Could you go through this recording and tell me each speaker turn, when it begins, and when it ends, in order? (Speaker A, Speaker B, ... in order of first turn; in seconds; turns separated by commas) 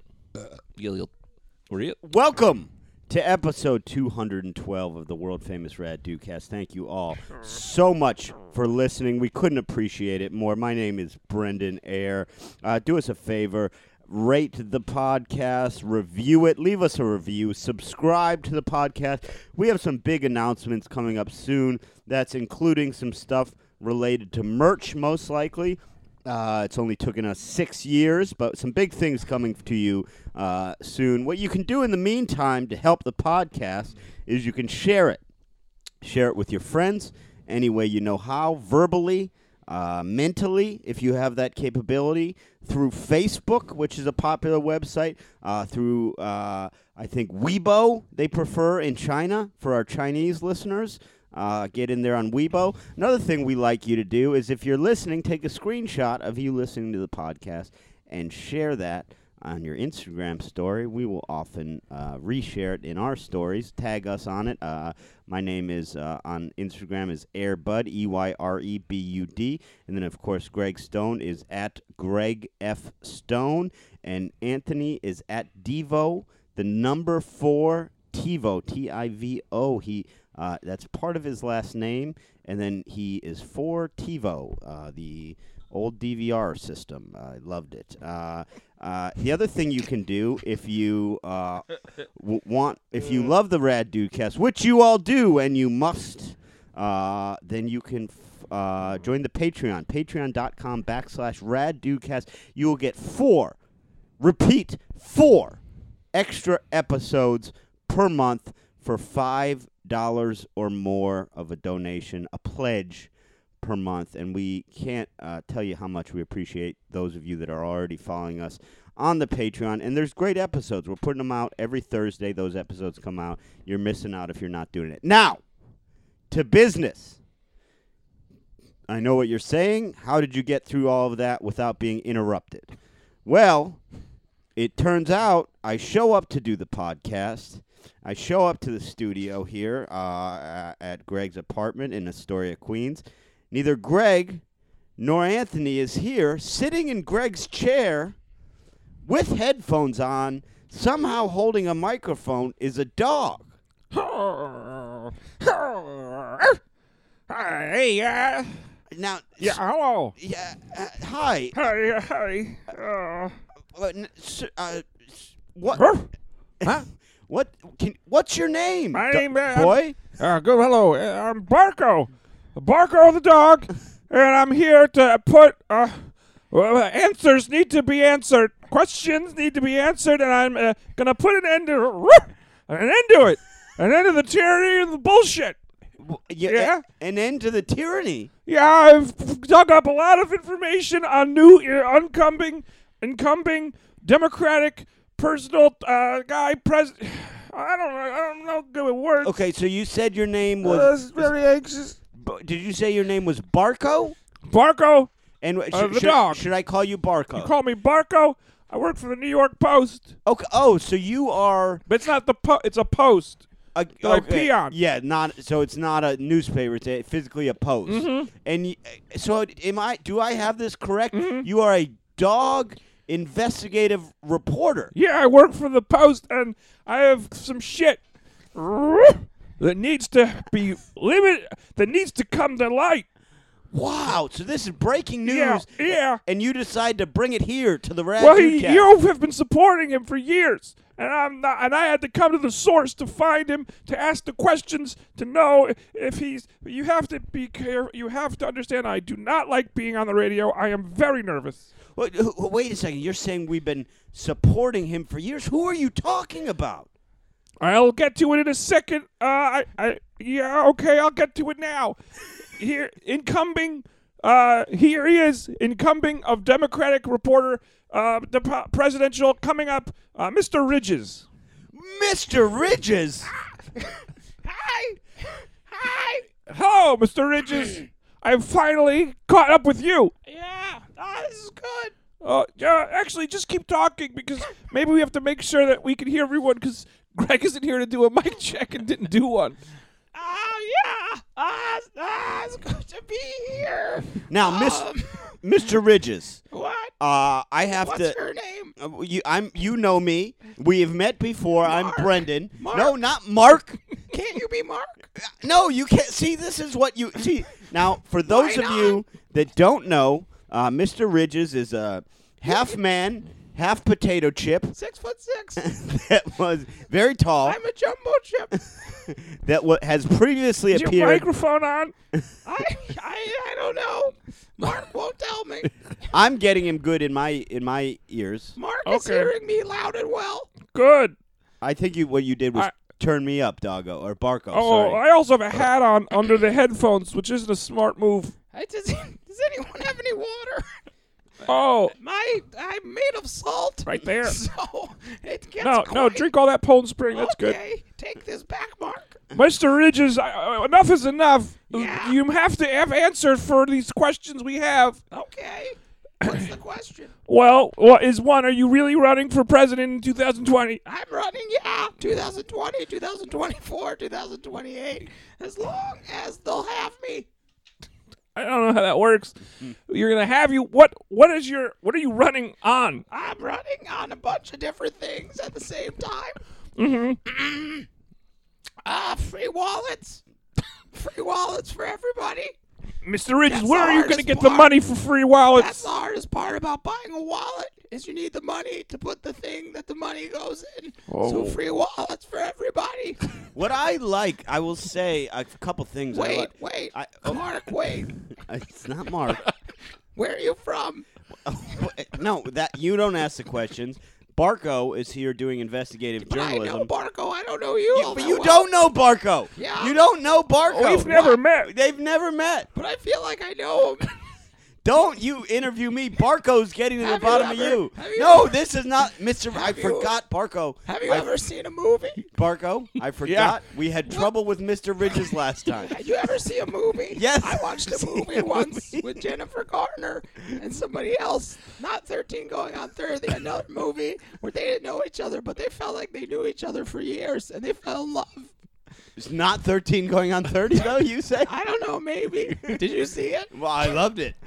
Speaker A: 0.3-1.1, Speaker A: 1.7-2.0, Speaker B: 2.0-35.2, Speaker B: 36.0-103.6, Speaker B: 104.2-105.6, Speaker B: 106.1-125.4, Speaker B: 126.3-127.2, Speaker B: 128.9-132.7, Speaker B: 133.2-133.8, Speaker B: 134.6-144.4, Speaker B: 145.0-148.2, Speaker B: 149.0-153.5, Speaker C: 153.9-156.6, Speaker C: 157.3-158.6, Speaker B: 158.9-159.6, Speaker C: 159.4-160.1, Speaker B: 160.2-161.7, Speaker C: 161.5-163.3, Speaker B: 163.7-165.9, Speaker C: 165.7-166.1, Speaker B: 166.6-170.0, Speaker C: 168.9-185.6, Speaker B: 186.0-188.3, Speaker C: 186.5-186.8, Speaker C: 188.5-199.3, Speaker B: 199.2-201.3, Speaker C: 200.6-202.0, Speaker B: 202.2-204.2, Speaker C: 204.5-205.1, Speaker B: 205.4-207.5, Speaker C: 205.7-206.4, Speaker C: 207.3-210.1, Speaker B: 210.2-211.8, Speaker C: 211.9-213.4, Speaker B: 213.7-224.9, Speaker C: 214.0-214.7, Speaker C: 217.9-218.3, Speaker C: 221.1-221.5, Speaker C: 224.9-228.0, Speaker C: 228.5-233.1, Speaker B: 233.7-238.9, Speaker C: 235.2-236.2, Speaker C: 238.2-251.7, Speaker B: 251.9-256.9, Speaker C: 257.6-262.0, Speaker C: 262.6-271.2, Speaker B: 271.7-273.3, Speaker D: 273.8-276.2, Speaker C: 276.5-280.1, Speaker D: 280.2-281.9, Speaker C: 282.2-289.6, Speaker D: 290.1-295.3, Speaker B: 294.3-296.4, Speaker D: 296.5-296.9, Speaker B: 297.0-298.2, Speaker D: 297.7-298.7, Speaker B: 298.8-303.8, Speaker D: 301.6-302.9, Speaker D: 304.1-305.1, Speaker B: 305.2-314.8, Speaker D: 308.3-309.0, Speaker D: 312.5-312.8, Speaker D: 314.7-315.6, Speaker B: 315.6-317.6, Speaker D: 317.4-318.7, Speaker B: 318.9-321.3, Speaker C: 320.7-321.9, Speaker D: 322.4-325.7, Speaker B: 326.1-328.6, Speaker D: 328.6-330.5, Speaker C: 328.8-329.3, Speaker C: 330.6-331.1, Speaker B: 331.6-335.0, Speaker C: 334.5-338.4, Speaker D: 338.5-340.7, Speaker C: 341.4-341.9, Speaker D: 341.9-346.3, Speaker C: 343.9-344.4, Speaker C: 345.6-347.6, Speaker D: 347.1-349.2, Speaker C: 349.3-355.0, Speaker D: 351.7-352.2, Speaker D: 355.1-357.1, Speaker C: 357.2-360.8, Speaker D: 360.8-367.3, Speaker C: 368.3-369.3, Speaker C: 369.9-373.0, Speaker D: 373.1-376.4, Speaker C: 376.8-377.2, Speaker D: 377.2-377.9, Speaker D: 378.8-380.2, Speaker D: 380.9-382.6, Speaker C: 383.0-385.9, Speaker D: 383.4-384.7, Speaker D: 385.5-393.2, Speaker A: 391.1-391.5, Speaker B: 393.5-397.4, Speaker D: 396.1-398.1, Speaker B: 398.3-399.5, Speaker D: 400.1-401.0, Speaker B: 401.4-406.9, Speaker D: 406.2-408.7, Speaker B: 407.9-412.7, Speaker D: 409.6-410.0, Speaker C: 410.6-411.7, Speaker D: 412.7-414.2, Speaker B: 414.8-421.3, Speaker D: 417.0-418.6, Speaker D: 419.5-420.1, Speaker D: 420.9-422.2, Speaker B: 422.2-425.9, Speaker A: 423.3-423.5, Speaker D: 425.7-438.5, Speaker B: 427.1-429.0, Speaker B: 439.2-441.5, Speaker D: 441.4-443.5, Speaker B: 443.5-444.4